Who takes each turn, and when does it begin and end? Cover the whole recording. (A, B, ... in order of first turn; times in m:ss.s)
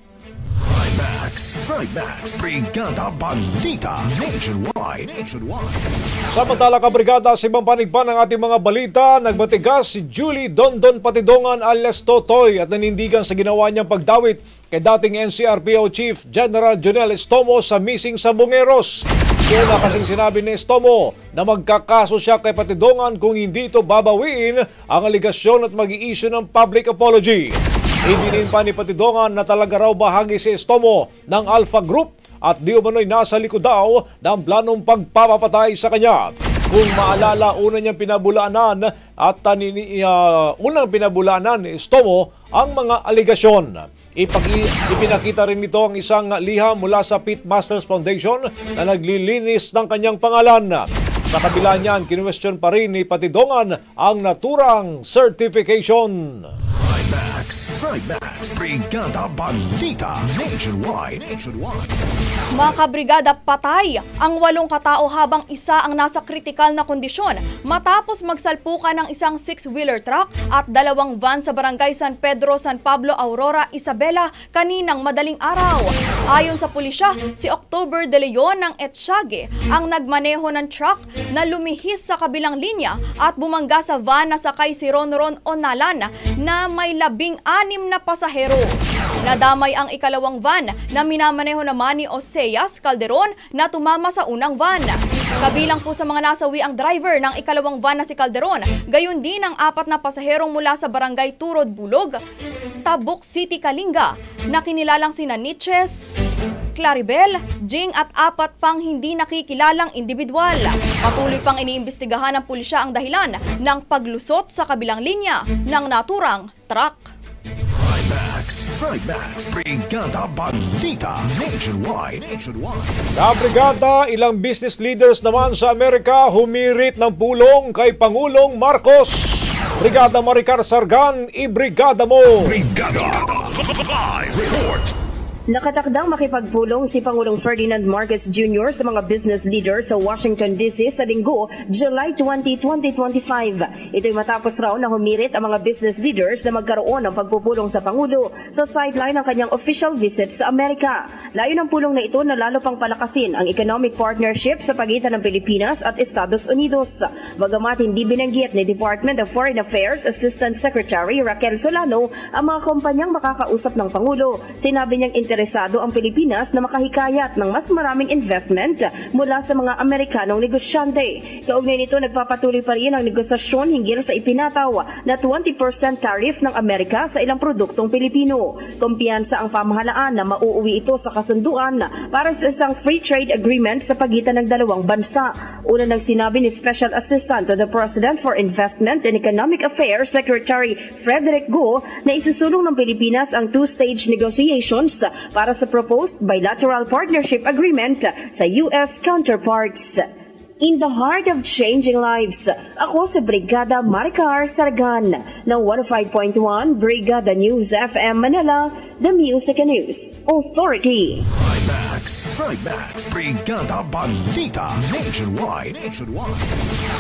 0:00.6-0:06.2 A
0:06.3-0:56.5 B
0:56.7-1:02.0 A
1:02.6-1:42.2 C
1:42.8-1:46.0 C
1:46.8-1:57.0 C
1:57.7-2:03.1 A
2:03.2-2:12.6 B
2:12.4-2:14.9 A
2:15.5-3:20.0 D
3:20.6-3:31.2 D
3:31.3-3:36.7 A